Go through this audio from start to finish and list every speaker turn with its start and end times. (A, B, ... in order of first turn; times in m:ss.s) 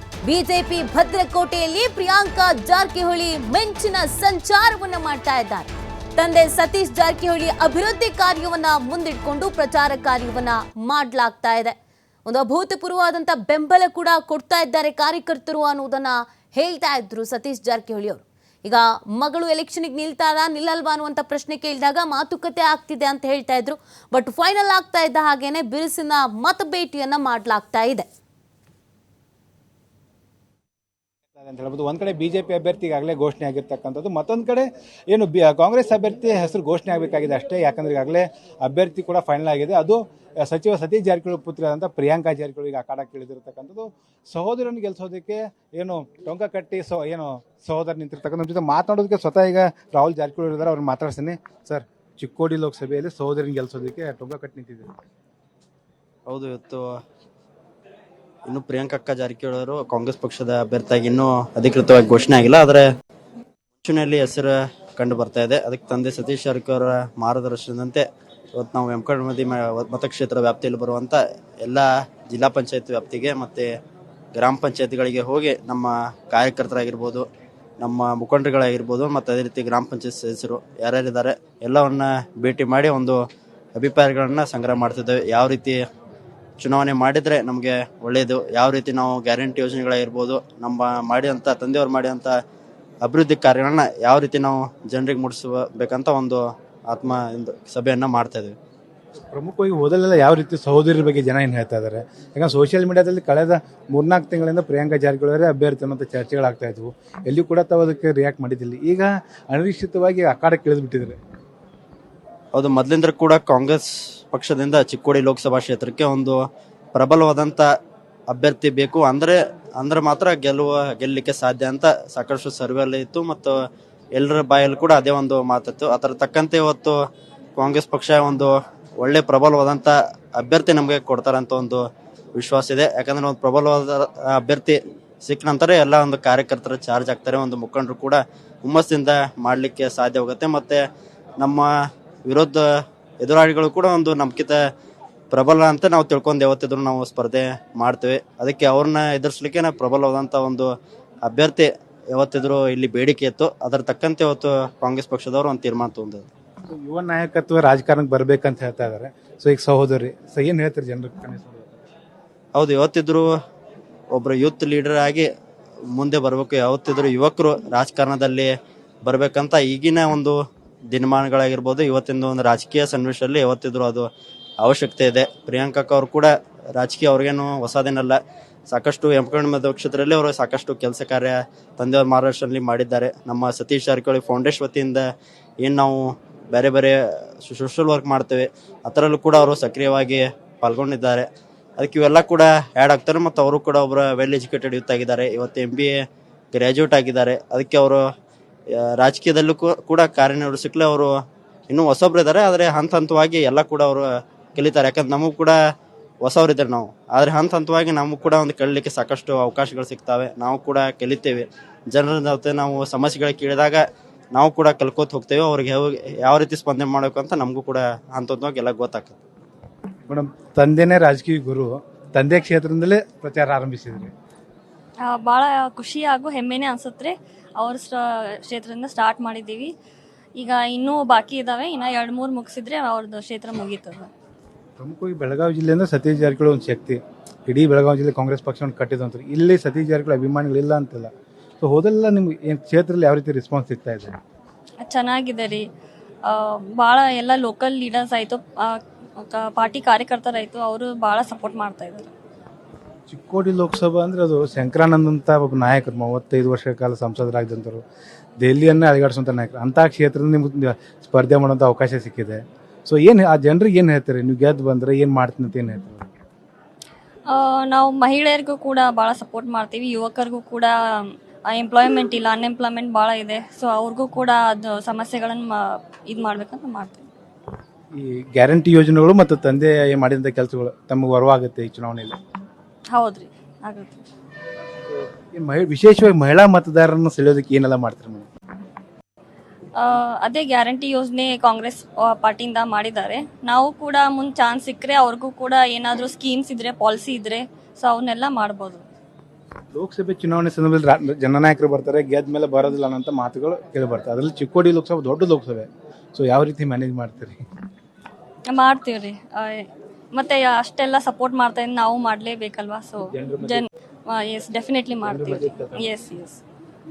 0:00.2-0:11.7 A
0:12.2-0:28.1 A
0:31.3-0:54.9 B
0:56.3-0:56.9 C
0:58.5-1:02.8 C
1:03.8-1:08.0 C
1:08.6-1:13.7 C
1:14.3-1:17.2 C
1:17.8-1:23.2 C
1:23.8-1:25.8 C
1:26.6-1:32.3 C
1:33.0-1:38.5 C
1:39.3-1:51.2 B
1:52.5-1:56.4 C
1:56.9-1:57.7 C
1:58.3-2:03.6 C
2:04.1-2:07.0 C
2:07.6-2:11.8 C
2:12.4-2:20.8 C
2:21.4-2:21.7 C
2:22.3-2:22.6 C
2:23.2-2:24.6 C
2:25.3-2:30.7 C
2:31.3-2:36.3 C
2:36.7-2:41.8 B
2:42.6-2:43.3 C
2:44.1-2:45.3 C
2:45.9-2:48.5 C
2:49.0-2:50.4 C
2:50.9-2:54.1 C
2:54.6-3:05.0 C
3:05.6-3:11.3 C
3:11.8-3:15.9 C
3:16.5-3:18.0 C
3:18.8-3:21.1 C
3:21.7-3:25.6 C
3:26.2-3:33.8 C
3:34.3-3:39.2 C
3:40.1-3:44.1 B
3:45.0-3:49.7 D
3:50.4-3:54.1 D
3:54.8-4:04.2 B
4:04.8-4:05.7 D
4:06.3-4:12.1 D
4:13.1-4:17.8 B
4:18.4-4:26.1 B
4:27.3-4:37.1 D
4:37.9-4:42.2 B
4:42.9-4:44.0 D
4:44.9-4:48.3 B
4:49.8-4:58.9 D
4:59.7-5:07.4 B
5:08.5-5:16.4 D
5:13.1-5:13.6 B
5:15.0-5:15.9 B